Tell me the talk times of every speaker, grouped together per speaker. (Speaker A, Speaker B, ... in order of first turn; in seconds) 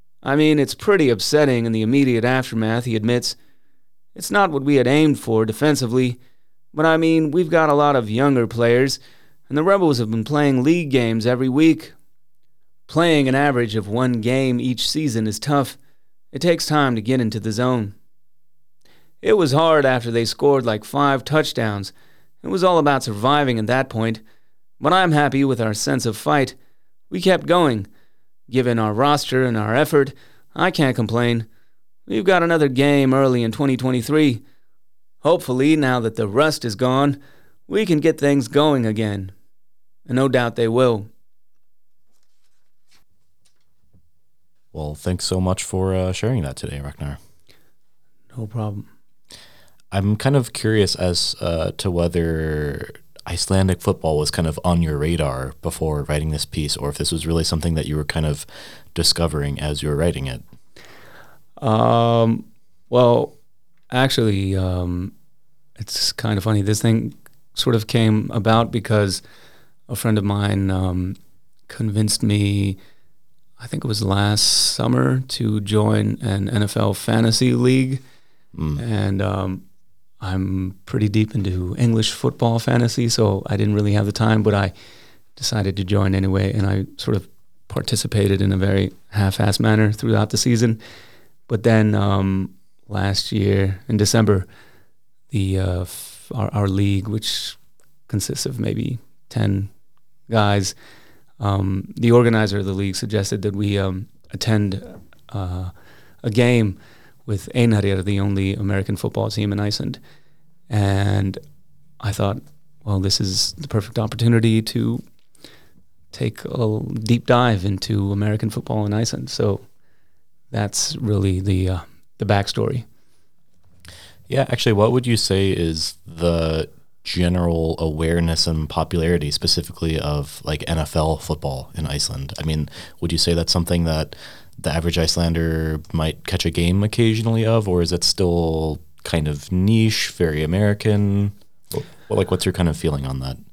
Speaker A: 0.2-3.4, 4.2-6.2, 6.7-11.9, 12.9-15.8, 16.3-17.9, 19.2-24.2, 24.8-26.6, 27.1-27.9, 28.5-31.5, 32.1-34.4, 35.2-39.3, 40.1-41.1, 48.3-48.9, 61.6-63.4, 63.9-65.1, 65.8-69.2, 69.9-71.2, 71.7-72.8, 73.6-78.0, 78.8-79.6, 80.2-84.7, 85.4-90.8, 91.5-94.5, 95.3-99.7, 100.3-100.8, 101.4-110.0, 110.7-111.4, 112.0-115.0, 116.1-119.7, 120.5-122.9
Speaker B: 44.7-47.2, 49.9-60.4, 78.5-78.8, 124.3-143.4